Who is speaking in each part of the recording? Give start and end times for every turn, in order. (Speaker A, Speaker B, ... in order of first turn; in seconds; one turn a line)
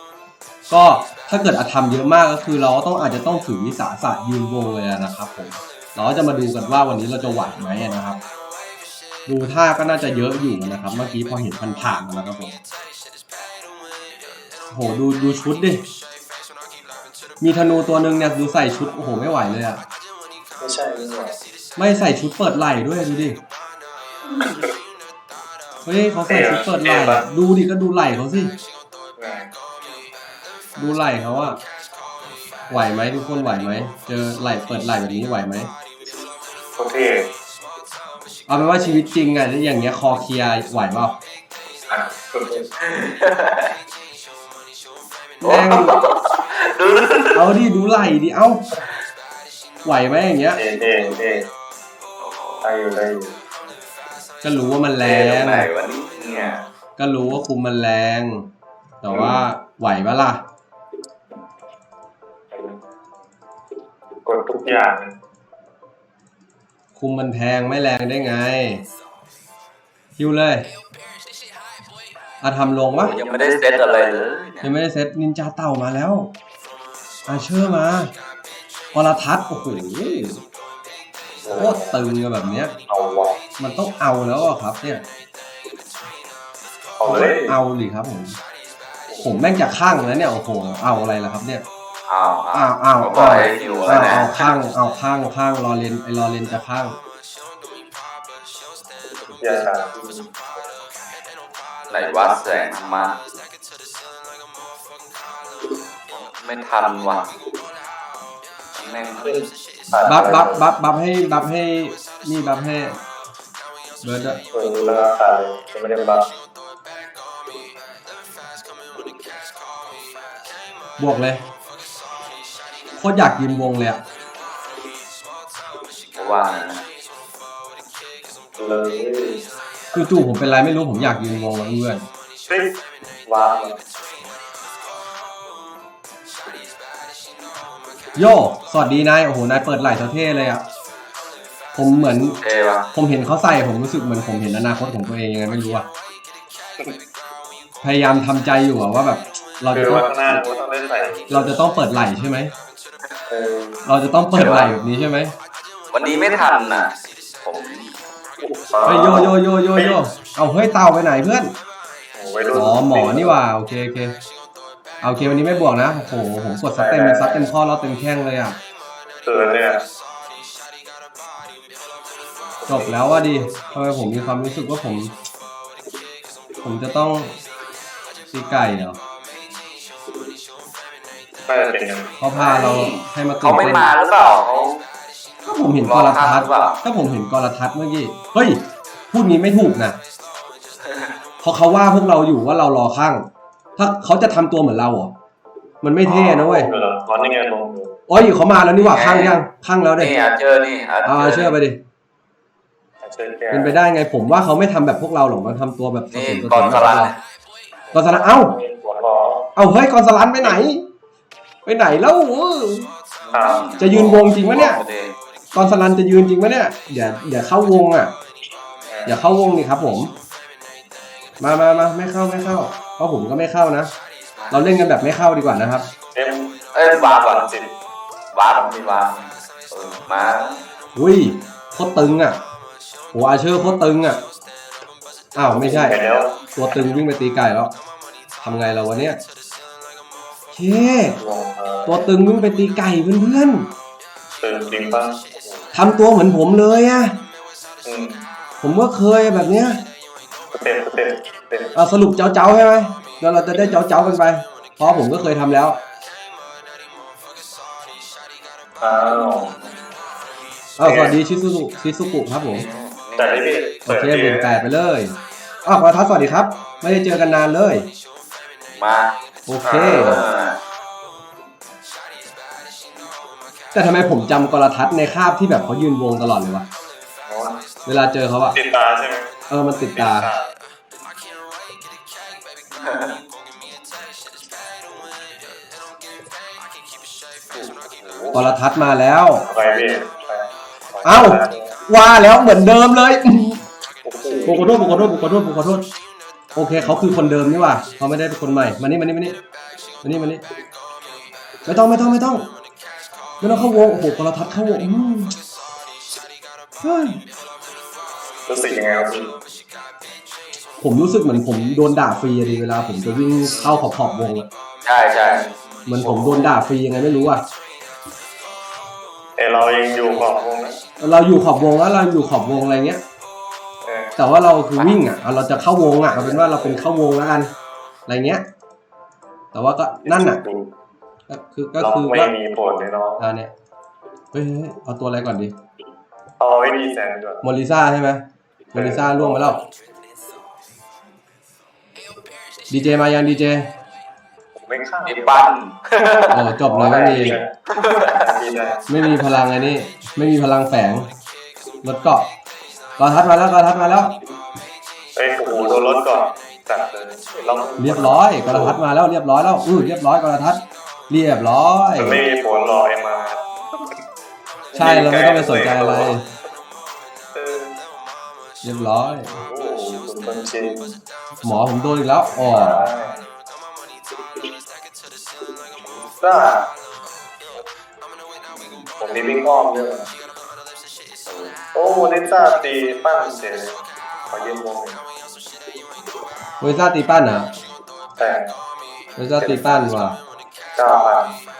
Speaker A: 0.7-8.2
Speaker A: 9.3-12.6
Speaker A: 14.7-15.8
Speaker A: 17.4-19.8
Speaker B: 20.6-21.4
Speaker A: 21.8-23.4
Speaker B: 24.4-24.6
Speaker A: 25.9-28.5
Speaker B: 26.3-27.2
Speaker B: 29.2-29.5
Speaker A: 30.8-31.6
Speaker A: 32.7-35.7
Speaker B: 36.8-37.3
Speaker A: 38.5-41.2
Speaker B: 41.9-42.7
Speaker C: 42.8-43.7
Speaker A: 45.4-46.0
Speaker C: 45.4-47.5
Speaker A: 47.3-48.6
Speaker A: 49.8-50.6
Speaker B: 50.5-51.5
Speaker C: 52.2-52.7
Speaker B: 52.6-53.3
Speaker A: 54.4-55.7
Speaker C: 55.0-56.6
Speaker A: 57.0-58.5
Speaker A: 59.0-60.4
Speaker B: 59.1-59.4
Speaker B: 62.5-62.8
Speaker B: 64.2-65.1
Speaker A: 67.0-68.8
Speaker A: 70.2-70.7
Speaker A: 72.4-73.2
Speaker C: 73.0-74.7
Speaker B: 73.1-74.2
Speaker A: 74.6-76.3
Speaker A: 77.3-78.1
Speaker A: 78.9-80.4
Speaker B: 81.4-82.0
Speaker A: 81.5-82.8
Speaker B: 82.9-83.4
Speaker A: 83.6-85.0
Speaker B: 87.0-87.5
Speaker A: 87.0-88.4
Speaker A: 89.2-91.6
Speaker C: 92.1-94.5
Speaker A: 92.5-97.0
Speaker B: 99.4-100.3
Speaker C: 101.9-103.2
Speaker C: 106.1-107.3
Speaker C: 108.7-109.5
Speaker B: 109.9-110.6
Speaker A: 110.1-113.0
Speaker A: 114.0-114.4
Speaker B: 114.5-116.3
Speaker A: 121.0-121.4
Speaker A: 122.9-124.0
Speaker C: 126.2-126.8
Speaker B: 128.6-129.4
Speaker A: 129.9-132.0
Speaker B: 132.5-132.7
Speaker B: 133.3-133.8
Speaker A: 138.2-140.6
Speaker A: 141.7-142.4
Speaker C: 142.4-142.9
Speaker A: 142.9-145.9
Speaker A: 147.8-150.4
Speaker B: 149.7-151.6
Speaker A: 151.3-152.5
Speaker B: 153.3-153.8
Speaker A: 153.8-155.3
Speaker C: 154.3-154.7
Speaker C: 155.9-157.9
Speaker B: 158.4-160.0
Speaker A: 158.8-161.5
Speaker B: 162.1-163.4
Speaker A: 162.5-164.1
Speaker A: 165.0-168.6
Speaker B: 166.8-167.5
Speaker B: 169.2-169.8
Speaker B: 172.6-173.5
Speaker A: 172.7-175.1
Speaker A: 176.6-177.4
Speaker A: 178.3-179.0
Speaker B: 181.5-182.1
Speaker A: 182.2-183.9
Speaker C: 182.3-184.8
Speaker A: 185.4-190.0
Speaker C: 185.8-186.8
Speaker A: 191.4-193.2
Speaker A: 193.8-195.1
Speaker A: 195.8-196.7
Speaker B: 196.0-198.0
Speaker A: 198.1-200.1
Speaker C: 198.8-199.4
Speaker C: 200.0-201.5
Speaker A: 201.0-201.8
Speaker B: 203.0-203.7
Speaker A: 203.5-207.1
Speaker C: 206.1-207.2
Speaker B: 207.9-209.5
Speaker A: 207.9-208.5
Speaker A: 209.6-210.8
Speaker A: 211.6-212.9
Speaker B: 213.3-214.4
Speaker C: 213.3-215.2
Speaker A: 213.8-214.8
Speaker A: 215.5-218.1
Speaker B: 218.9-219.2
Speaker A: 219.1-220.1
Speaker A: 221.4-223.9
Speaker A: 224.5-225.9
Speaker B: 226.1-227.7
Speaker C: 226.7-227.5
Speaker C: 228.3-230.6
Speaker A: 230.9-232.4
Speaker A: 233.1-234.2
Speaker A: 235.3-236.0
Speaker B: 235.5-236.4
Speaker A: 236.6-237.7
Speaker A: 238.4-239.2
Speaker A: 240.5-241.2
Speaker B: 241.2-242.1
Speaker A: 241.8-243.7
Speaker B: 244.4-245.7
Speaker A: 245.7-247.2
Speaker B: 247.8-248.2
Speaker A: 248.6-249.8
Speaker B: 250.5-251.7
Speaker A: 251.7-255.8
Speaker B: 258.8-259.6
Speaker A: 260.8-262.6
Speaker B: 260.8-261.1
Speaker C: 262.5-263.4
Speaker B: 263.1-264.6
Speaker A: 263.9-267.9
Speaker C: 268.8-269.1
Speaker A: 269.5-270.2
Speaker B: 269.6-270.2
Speaker C: 269.9-270.6
Speaker A: 273.7-276.7
Speaker B: 277.3-277.6
Speaker A: 277.9-278.6
Speaker B: 278.5-279.3
Speaker A: 279.5-280.3
Speaker B: 279.9-280.5
Speaker C: 282.9-283.1
Speaker B: 287.5-288.4
Speaker A: 288.3-289.4
Speaker B: 289.4-291.8
Speaker A: 291.0-293.6
Speaker B: 294.0-295.1
Speaker A: 294.4-295.8
Speaker A: 296.5-299.4
Speaker A: 300.0-300.4
Speaker A: 301.6-302.5
Speaker A: 303.4-305.4
Speaker A: 306.8-307.2
Speaker B: 308.5-309.4
Speaker A: 310.8-314.5
Speaker C: 314.8-315.4
Speaker B: 315.2-316.5
Speaker A: 315.9-317.4
Speaker B: 319.4-320.8
Speaker A: 321.0-323.0
Speaker B: 323.8-324.2
Speaker A: 324.2-327.5
Speaker B: 326.1-326.8
Speaker A: 328.1-328.4
Speaker A: 329.5-330.4
Speaker B: 330.0-330.7
Speaker A: 331.3-332.3
Speaker B: 331.8-333.2
Speaker A: 333.2-333.5
Speaker A: 334.3-335.5
Speaker B: 336.4-337.4
Speaker A: 337.4-339.6
Speaker B: 338.7-339.6
Speaker A: 342.7-343.7
Speaker B: 344.6-345.5
Speaker C: 345.0-346.5
Speaker A: 346.3-347.4
Speaker B: 346.7-348.9
Speaker C: 347.7-348.3
Speaker A: 348.9-351.1
Speaker A: 351.8-352.3
Speaker A: 353.0-354.1
Speaker B: 355.1-358.8
Speaker A: 357.8-362.2
Speaker B: 362.0-363.4
Speaker B: 364.7-366.1
Speaker A: 364.8-366.2
Speaker B: 367.3-367.7
Speaker A: 368.6-369.3
Speaker B: 369.3-371.0
Speaker A: 371.4-372.9
Speaker B: 372.3-373.2
Speaker B: 376.2-376.7
Speaker C: 378.6-378.8
Speaker B: 379.0-380.1
Speaker C: 381.3-381.5
Speaker B: 381.7-385.0
Speaker A: 386.6-387.5
Speaker B: 388.2-388.5
Speaker A: 389.2-390.2
Speaker B: 389.4-389.9
Speaker B: 390.8-391.3